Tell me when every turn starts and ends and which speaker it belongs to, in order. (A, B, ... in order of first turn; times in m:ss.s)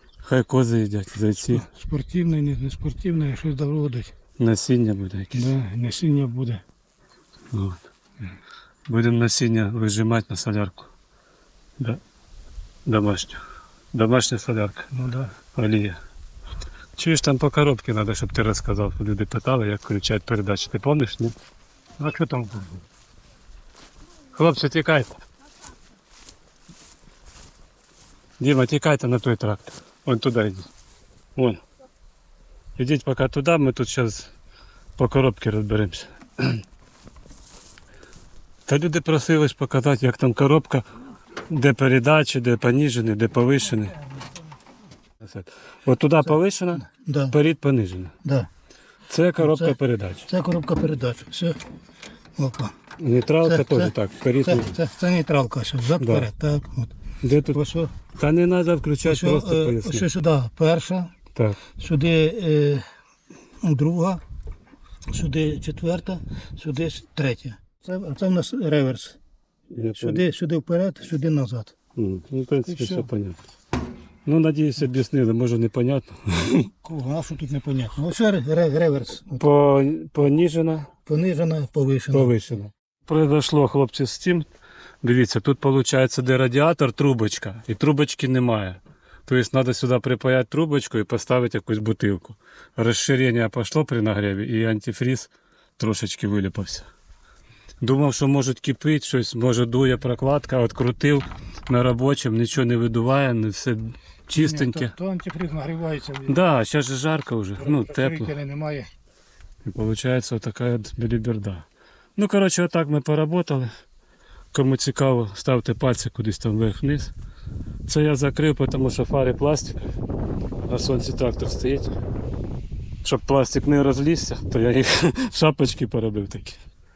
0:00.2-0:01.7 A
0:01.5-0:04.1 B
0:04.4-0:05.6 A
0:05.3-0:06.6 B
0:07.5-0:07.8 A
0:08.9-0:10.9 A
0:12.9-0:13.4 A
0:13.9-0:14.9 A
0:14.9-0:15.4 B
0:15.5-0:16.0 A
0:17.0-0:21.3 A
0:22.0-0:22.8 B
0:24.3-0:25.2 A
0:28.4-0:30.7 A
0:31.4-0:31.6 A
0:32.8-0:34.3 A
0:35.0-0:36.6 A
0:38.7-0:40.9 A
0:41.5-0:44.0 A
0:45.2-0:48.1 A
0:46.8-0:47.4 B
0:48.2-0:48.5 B
0:49.1-0:50.3 A
0:49.4-0:49.8 B
0:50.3-0:51.6 B
0:52.4-0:52.7 B
0:53.0-0:54.7 A
0:53.4-0:56.9 B
0:56.0-0:56.3 A
0:57.2-0:57.6 A
0:57.5-0:57.9 B
0:58.2-1:00.1 A
0:59.0-1:01.1 B
1:01.4-1:01.6 A
1:01.8-1:02.8 B
1:03.6-1:04.2 B
1:05.1-1:09.2 B
1:09.7-1:10.2 A
1:10.0-1:11.7 B
1:12.0-1:13.4 A
1:12.7-1:13.1 B
1:14.3-1:16.7 A
1:16.8-1:19.4 B
1:19.4-1:20.9 A
1:21.1-1:22.4 B
1:22.1-1:24.5 A
1:25.0-1:36.9 A
1:37.8-1:44.9 A
1:44.3-1:46.4 B
1:46.3-1:48.3 A
1:47.6-1:48.9 B
1:49.6-1:53.7 A
1:54.5-1:57.1 A
1:57.9-1:59.8 A
2:00.7-2:02.0 A
2:03.0-2:06.6 A